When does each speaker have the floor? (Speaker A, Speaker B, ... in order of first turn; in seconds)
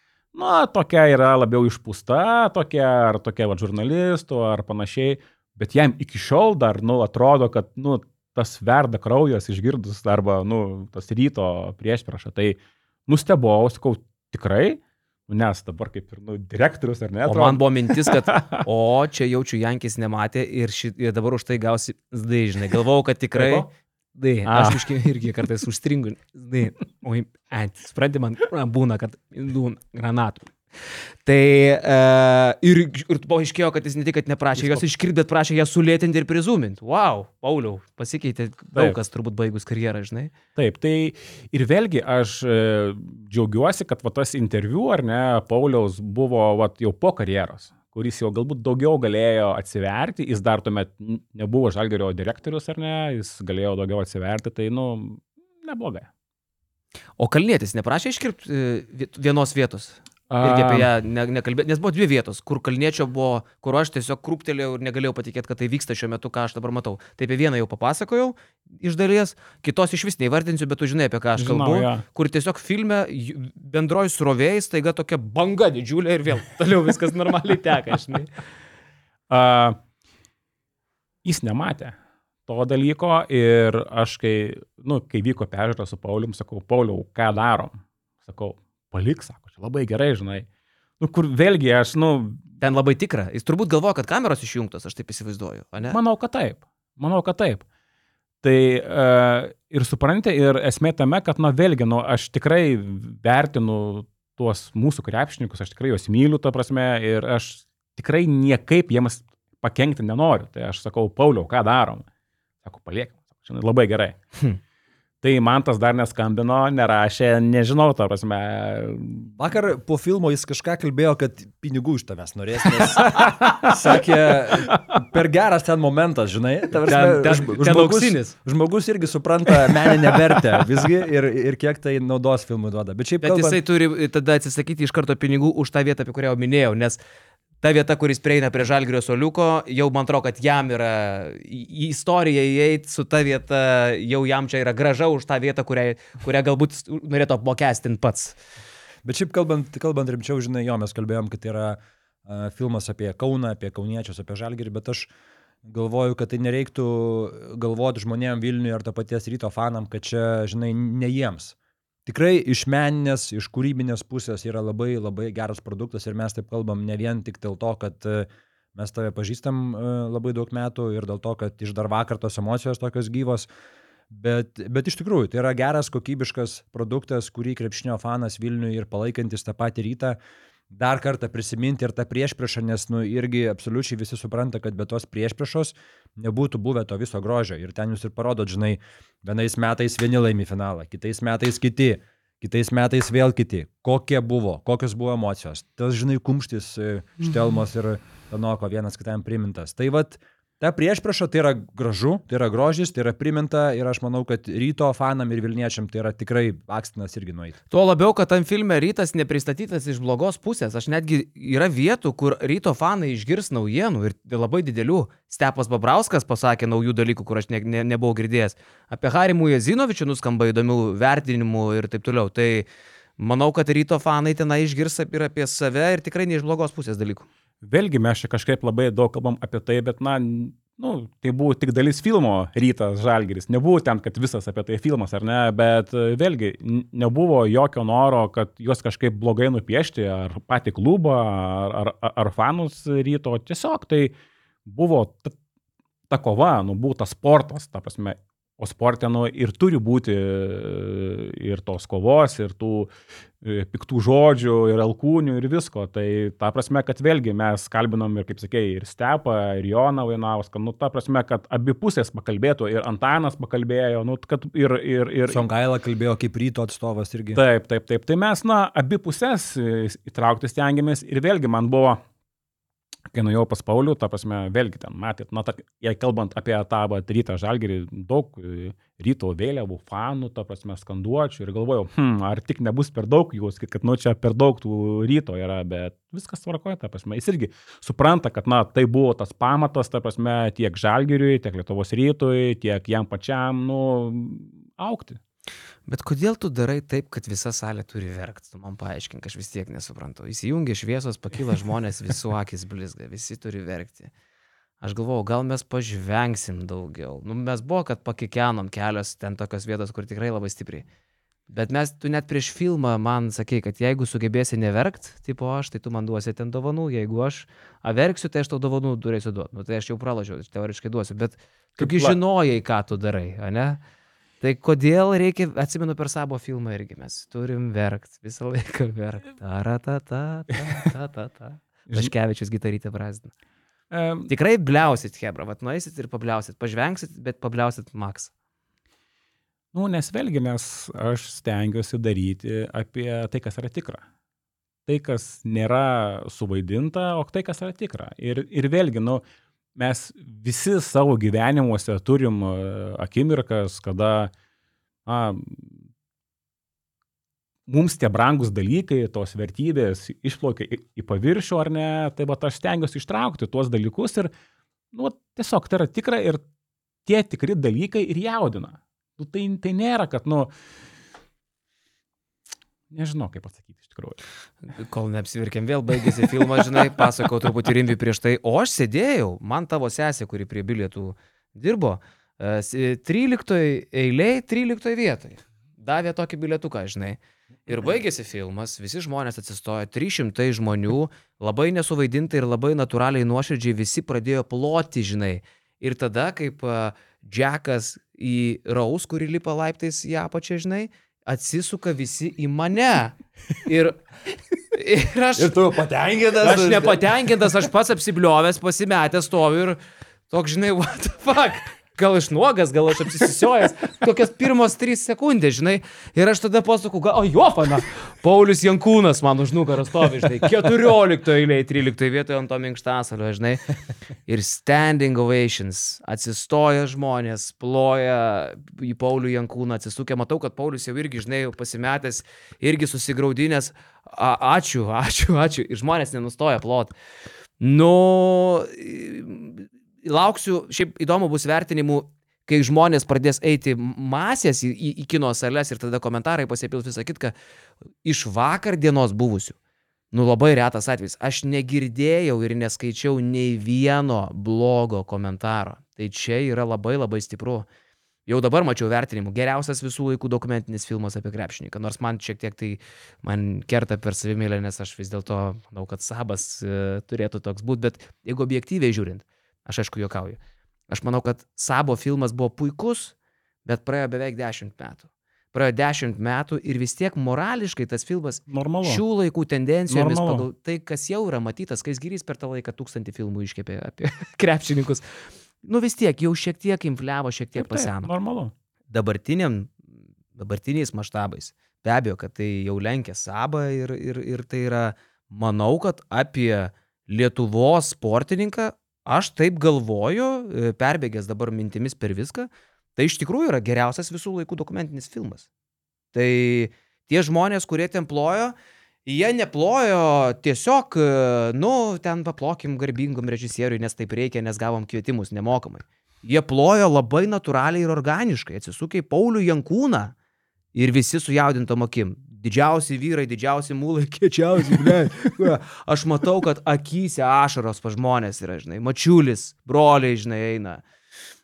Speaker A: 0.3-18.6, 23.3-23.7, 24.4-24.8, 34.5-34.8, 40.5-56.1, 60.3-60.9, 71.4-72.0, 79.3-79.8, 81.2-81.9, 82.5-90.5, 91.0-92.5, 95.9-97.6, 98.4-112.0, 112.6-114.2, 115.2-119.4, 122.8-123.8, 124.5-124.9, 227.6-244.1, 244.7-245.3, 246.1-252.9, 253.4-265.4, 267.3-272.0, 273.1-295.2, 321.8-322.1, 333.9-334.3, 339.7-344.0, 344.9-349.2, 349.8-354.3, 355.1-355.8, 357.7-364.3, 364.9-366.4, 367.1-370.5, 372.9-374.2, 478.5-479.0, 479.9-480.4, 487.6-488.5
Speaker B: 17.2-40.3, 57.2-78.3, 92.6-96.0, 126.8-128.3, 133.2-137.0, 137.6-148.3, 207.7-222.7, 223.2-227.3, 295.9-304.1, 304.8-310.9, 311.5-323.8, 324.4-333.3, 334.3-338.3, 374.8-404.0, 404.7-405.6, 406.4-409.8, 410.3-423.7, 424.2-436.9, 437.6-447.3, 448.0-449.6, 450.1-457.7, 458.3-473.1, 473.6-488.1, 488.9-505.5, 506.1-520.1, 520.7-530.8
Speaker C: 119.4-133.6, 149.0-155.1, 155.6-161.5, 162.1-173.5, 174.1-180.2, 180.7-207.6, 265.3-267.4, 405.4-407.1